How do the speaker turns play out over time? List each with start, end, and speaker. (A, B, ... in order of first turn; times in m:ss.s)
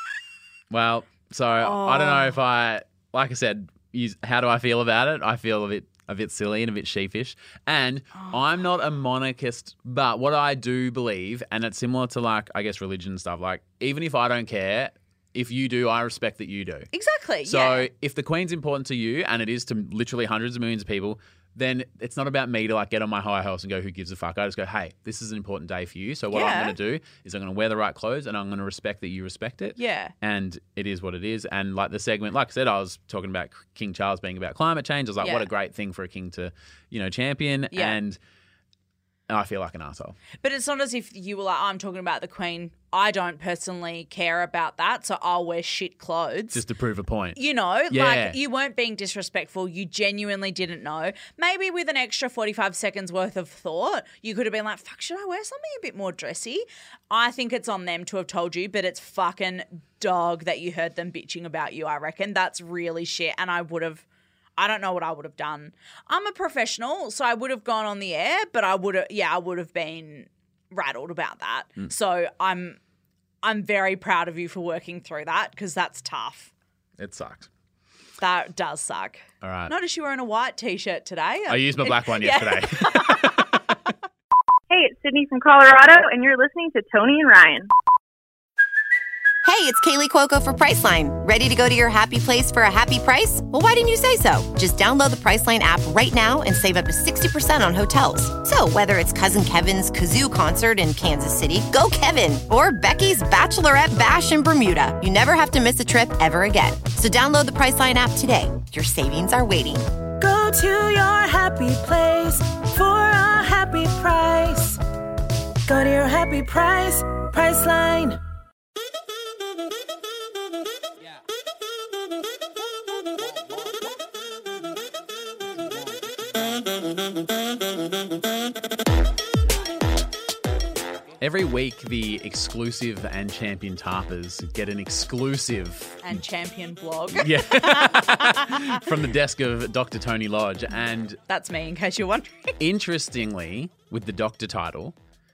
0:00.7-0:16.9 A
0:01.6-0:02.4 B
0:16.9-0:17.9 B
0:17.5-0:38.2 A
0:26.3-0:26.8 B
0:29.8-0:30.1 B
0:35.2-0:35.5 B
0:37.7-0:38.0 B
0:39.3-0:40.2 A
0:40.4-0:46.6 B
0:46.5-0:47.4 A
0:47.4-1:04.0 B
0:47.9-0:48.4 A
1:04.6-1:12.8 B
1:13.4-1:16.5 B
1:17.0-1:17.5 A
1:18.2-1:23.5 B
1:19.4-1:19.7 A
1:21.5-1:23.7 A
1:24.7-1:27.7 C
1:29.4-1:49.9 D
1:50.2-1:54.8 E
1:55.7-1:58.2 E
2:11.2-2:16.2 A
2:16.0-2:18.8 B
2:17.2-2:21.2 A
2:21.3-2:22.6 B
2:22.6-2:25.0 A